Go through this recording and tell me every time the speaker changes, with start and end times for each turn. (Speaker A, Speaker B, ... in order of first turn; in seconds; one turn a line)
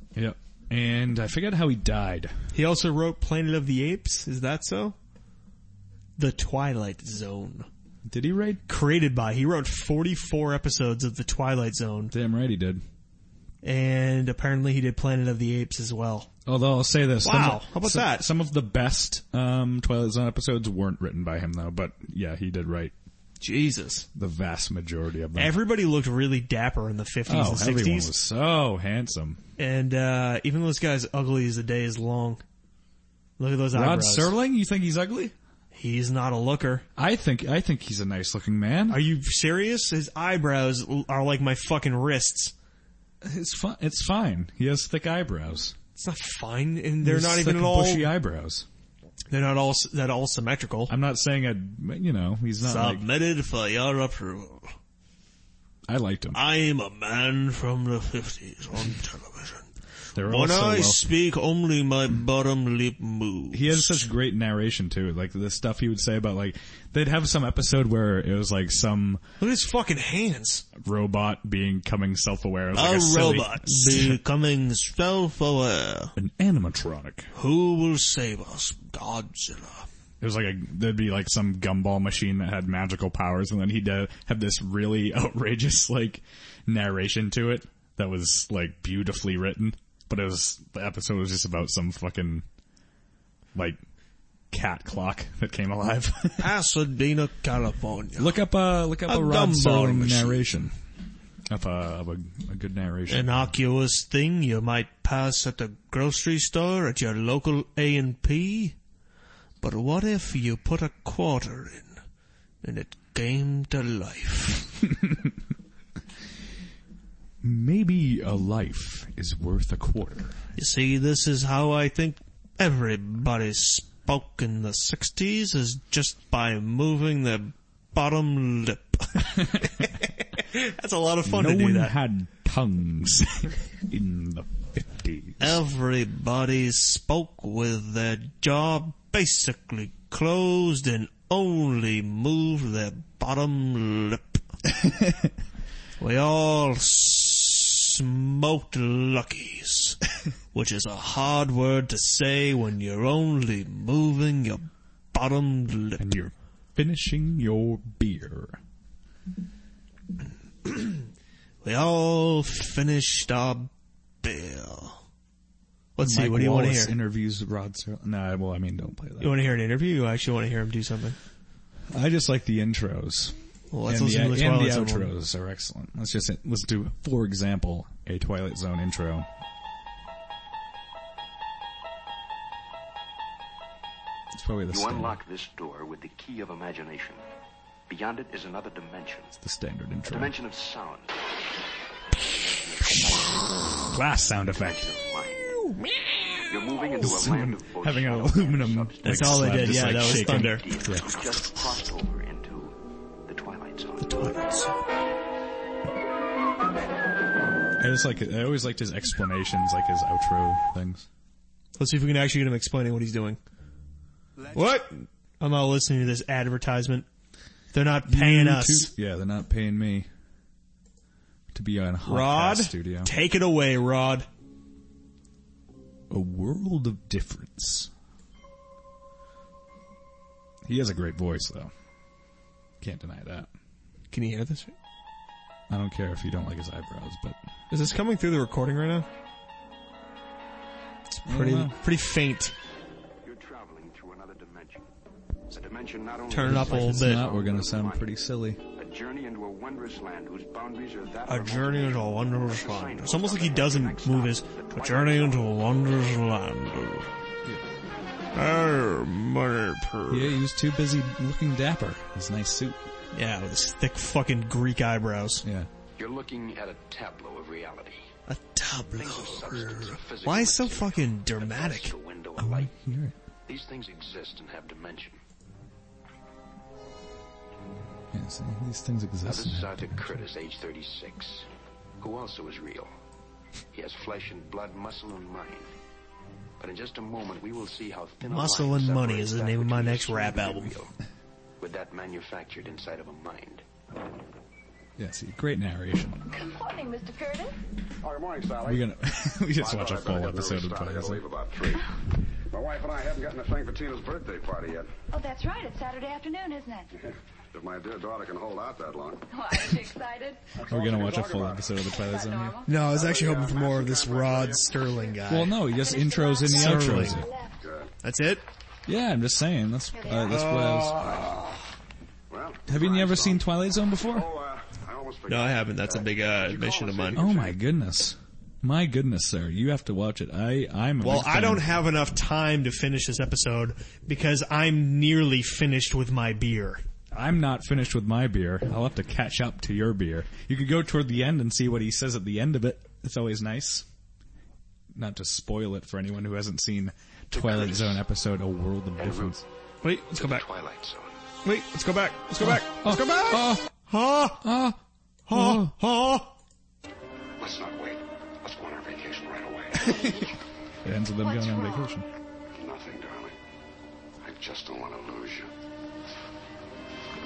Speaker A: 0.1-2.4
Speaker B: 2.5-5.0
Speaker B: 6.2-7.7
Speaker A: 8.1-8.6
Speaker B: 8.7-12.1
Speaker A: 12.1-12.8
Speaker B: 13.6-16.3
Speaker A: 16.4-22.9
Speaker B: 17.2-18.3
Speaker B: 23.4-24.1
Speaker A: 24.1-25.5
Speaker B: 25.4-28.1
Speaker A: 27.3-29.4
Speaker B: 29.6-32.4
Speaker B: 33.4-34.3
Speaker A: 33.7-35.3
Speaker B: 35.7-36.9
Speaker A: 37.0-39.0
Speaker B: 38.9-42.5
Speaker A: 43.2-45.8
Speaker B: 46.0-48.1
Speaker A: 47.0-48.6
Speaker B: 49.3-50.9
Speaker A: 50.9-53.0
Speaker B: 52.6-54.7
Speaker A: 55.9-56.4
Speaker B: 56.3-59.7
Speaker A: 60.1-61.1
Speaker B: 60.2-64.1
Speaker A: 63.5-69.2
Speaker B: 69.4-70.7
Speaker A: 70.8-74.2
Speaker B: 72.7-76.1
Speaker A: 76.2-77.3
Speaker B: 77.3-79.9
Speaker A: 80.2-92.4
Speaker A: 94.5-96.5
Speaker B: 96.4-98.4
Speaker A: 98.2-100.7
Speaker B: 99.0-100.5
Speaker A: 101.5-103.5
Speaker B: 103.1-108.8
Speaker B: 109.6-112.0
Speaker B: 112.6-114.8
Speaker A: 115.0-115.3
Speaker A: 117.4-120.4
Speaker B: 120.5-131.9
Speaker A: 131.2-135.6
Speaker B: 135.4-144.4
Speaker A: 144.9-145.3
Speaker B: 146.0-150.0
Speaker B: 150.5-156.1
Speaker A: 156.0-158.6
Speaker B: 160.6-161.0
Speaker B: 161.6-163.7
Speaker B: 164.2-165.0
Speaker B: 165.9-166.9
Speaker A: 166.0-169.4
Speaker B: 169.2-171.2
Speaker A: 171.9-179.3
Speaker B: 173.7-175.1
Speaker A: 184.3-185.2
Speaker C: 184.7-187.2
Speaker C: 187.9-189.3
Speaker A: 189.4-190.3
Speaker C: 190.1-191.2
Speaker C: 192.1-193.9
Speaker A: 193.8-194.9
Speaker C: 194.4-195.6
Speaker B: 195.5-196.5
Speaker C: 196.4-204.4
Speaker A: 197.0-201.1
Speaker B: 199.0-200.7
Speaker B: 204.0-204.9
Speaker A: 207.8-211.1
Speaker B: 211.8-213.4
Speaker B: 214.5-217.1
Speaker B: 217.7-218.9
Speaker A: 218.1-220.1
Speaker A: 221.5-223.1
Speaker B: 222.1-224.3
Speaker A: 226.1-227.9
Speaker A: 230.6-231.7
Speaker A: 232.8-233.5
Speaker B: 234.1-234.7
Speaker A: 235.7-237.4
Speaker B: 237.7-239.1
Speaker B: 241.1-242.5
Speaker A: 241.2-241.8
Speaker C: 243.2-244.9
Speaker C: 245.5-248.1
Speaker B: 246.3-247.2
Speaker A: 246.4-248.6
Speaker C: 248.7-256.2
Speaker B: 251.2-257.1
Speaker B: 258.3-260.4
Speaker A: 260.1-262.8
Speaker B: 263.1-265.4
Speaker A: 265.4-265.7
Speaker C: 266.0-268.1
Speaker B: 268.3-271.9
Speaker C: 268.9-272.7
Speaker A: 272.4-273.2
Speaker C: 273.4-275.2
Speaker A: 278.1-280.2
Speaker C: 279.2-281.5
Speaker C: 282.0-282.9
Speaker C: 283.7-285.7
Speaker C: 286.6-290.9
Speaker B: 288.3-290.8
Speaker C: 291.6-293.6
Speaker A: 295.0-296.2
Speaker D: 296.3-297.6
Speaker E: 298.0-298.9
Speaker A: 298.6-301.2
Speaker E: 299.5-304.9
Speaker D: 305.1-306.9
Speaker E: 307.0-309.8
Speaker D: 309.3-310.4
Speaker E: 310.5-311.7
Speaker A: 310.7-312.6
Speaker D: 311.9-312.7
Speaker B: 312.6-315.6
Speaker E: 312.8-315.1
Speaker A: 315.3-317.3
Speaker D: 315.7-317.6
Speaker B: 316.4-317.2
Speaker E: 317.6-317.9
Speaker B: 318.0-318.4
Speaker A: 318.9-321.1
Speaker D: 320.0-320.5
Speaker B: 320.3-321.2
Speaker E: 321.0-321.3
Speaker E: 322.3-323.4
Speaker A: 322.7-324.3
Speaker E: 324.0-327.6
Speaker B: 325.3-327.3
Speaker A: 327.1-331.7
Speaker B: 331.0-336.8
Speaker A: 337.1-343.9
Speaker A: 344.9-349.4
Speaker C: 347.3-348.0
Speaker C: 349.0-349.4
Speaker B: 349.8-350.4
Speaker C: 350.1-351.2
Speaker B: 351.4-354.4
Speaker A: 352.4-353.6
Speaker A: 354.4-354.8
Speaker B: 355.3-356.3
Speaker A: 355.3-355.7
Speaker E: 357.4-357.8
Speaker C: 357.4-360.0
Speaker E: 358.5-358.7
Speaker A: 359.8-360.3
Speaker D: 359.8-360.3
Speaker A: 360.8-362.1
Speaker D: 361.4-361.8
Speaker C: 362.6-363.1
Speaker E: 362.6-363.3
Speaker C: 364.2-365.4